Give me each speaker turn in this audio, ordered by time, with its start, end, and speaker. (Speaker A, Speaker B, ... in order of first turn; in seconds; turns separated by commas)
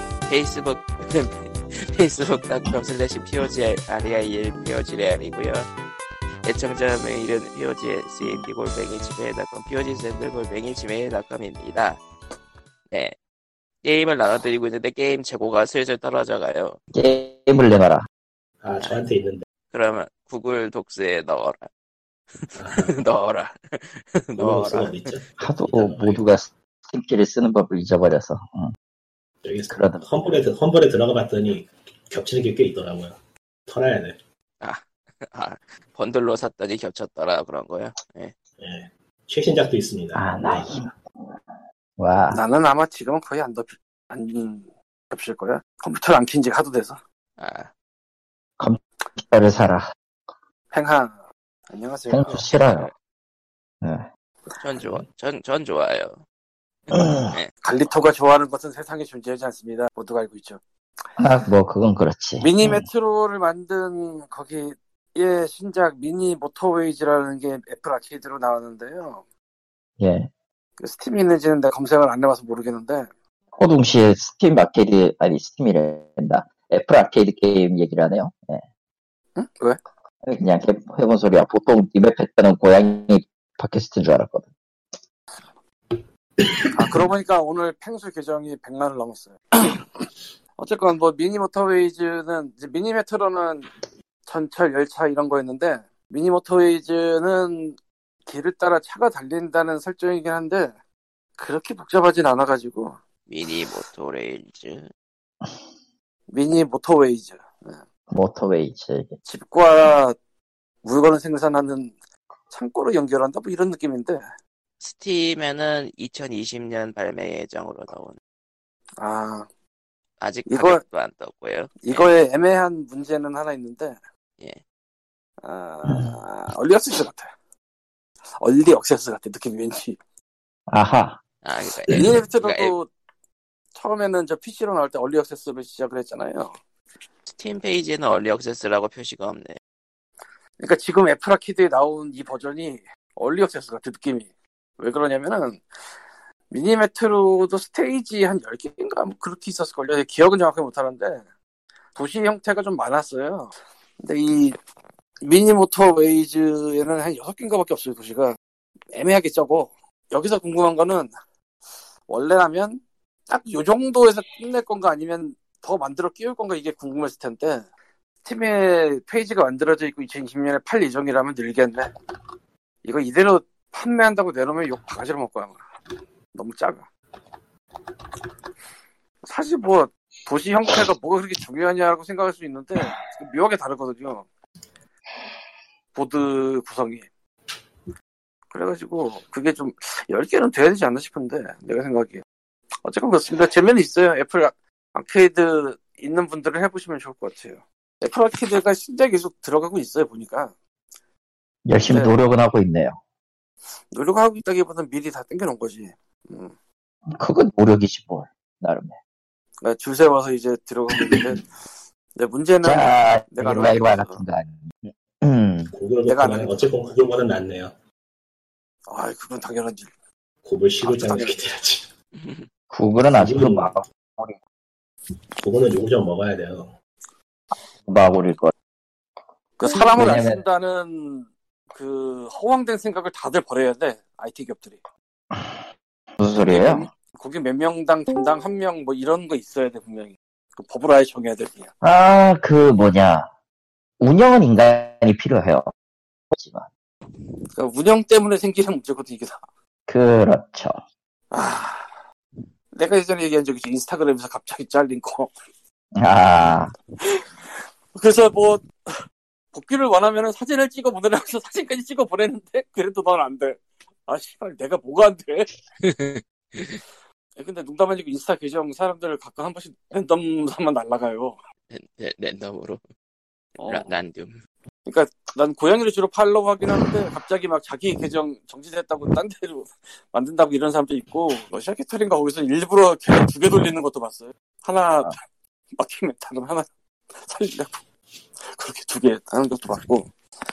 Speaker A: 0.3-5.7, Speaker A: 6.4-12.0, Speaker A: 13.8-16.8, Speaker B: 16.9-18.1, Speaker C: 18.6-19.4, Speaker A: 18.8-19.0, Speaker A: 19.7-21.7, Speaker A: 22.4-25.1, Speaker C: 22.6-22.9, Speaker C: 24.4-26.2, Speaker B: 25.4-28.7, Speaker C: 29.4-33.2, Speaker B: 29.7-30.1, Speaker C: 33.7-34.2, Speaker A: 34.6-38.3, Speaker C: 38.6-40.9, Speaker B: 40.1-41.4, Speaker B: 42.0-42.4, Speaker D: 42.3-47.0, Speaker A: 47.4-47.7, Speaker B: 48.6-49.8, Speaker D: 50.7-52.5, Speaker B: 52.1-52.9, Speaker B: 53.8-54.1, Speaker A: 54.6-56.2, Speaker A: 56.9-57.5, Speaker B: 56.9-57.4, Speaker D: 57.6-60.6, Speaker B: 61.2-62.9, Speaker D: 62.4-69.2, Speaker B: 70.0-70.3, Speaker D: 70.8-73.1, Speaker B: 73.6-78.6, Speaker D: 79.4-79.8, Speaker B: 80.3-84.5, Speaker D: 86.7-93.7, Speaker D: 94.3-100.7, Speaker D: 101.4-103.0, Speaker A: 103.3-104.9, Speaker D: 106.3-107.8, Speaker B: 108.1-109.2, Speaker D: 109.2-110.2, Speaker D: 110.8-112.0, Speaker D: 112.5-114.2, Speaker A: 114.8-118.2, Speaker D: 119.0-119.5, Speaker A: 120.2-122.1, Speaker D: 120.5-120.8, Speaker D: 121.8-124.0, Speaker D: 125.4-127.3, Speaker D: 128.4-130.0, Speaker B: 130.7-131.2, Speaker A: 131.4-132.7, Speaker D: 131.9-132.9, Speaker B: 131.9-132.2, Speaker D: 133.7-136.5, Speaker A: 137.3-139.6, Speaker D: 140.6-145.6, Speaker D: 146.5-151.2, Speaker D: 151.9-154.6, Speaker D: 155.2-158.4, Speaker D: 158.9-161.1, Speaker D: 162.1-167.7, Speaker D: 168.2-171.9, Speaker D: 172.8-175.6, Speaker D: 176.3-176.9, Speaker D: 179.3-184.2, Speaker D: 185.9-187.1, Speaker D: 188.5-192.2, Speaker D: 192.8-200.6, Speaker B: 201.7-203.0, Speaker D: 201.8-202.2, Speaker D: 203.9-206.5, Speaker B: 207.1-209.0, Speaker D: 209.6-211.5, Speaker B: 210.9-211.3, Speaker D: 212.2-214.2, Speaker B: 212.6-215.7, Speaker C: 215.7-217.7, Speaker D: 216.1-216.7, Speaker D: 218.9-219.9, Speaker C: 220.4-221.9, Speaker D: 220.8-221.4, Speaker A: 222.1-222.5, Speaker B: 222.7-224.4, Speaker C: 223.1-223.8, Speaker C: 225.4-226.8, Speaker B: 227.8-228.5, Speaker D: 229.6-234.8, Speaker B: 229.9-230.4, Speaker B: 235.3-235.7, Speaker B: 236.2-236.9, Speaker D: 236.4-241.7, Speaker B: 241.8-243.3, Speaker B: 244.0-245.7, Speaker B: 246.3-246.7, Speaker D: 247.5-249.4, Speaker B: 249.9-250.8, Speaker D: 251.3-252.0, Speaker D: 252.7-255.3, Speaker B: 255.9-256.8, Speaker D: 257.0-257.3, Speaker D: 257.9-259.0, Speaker D: 259.5-265.5, Speaker A: 265.8-266.8, Speaker D: 267.4-271.4, Speaker A: 271.7-272.8, Speaker D: 273.6-273.9, Speaker A: 273.7-274.4, Speaker D: 274.9-285.2, Speaker D: 285.8-287.8, Speaker D: 288.4-290.1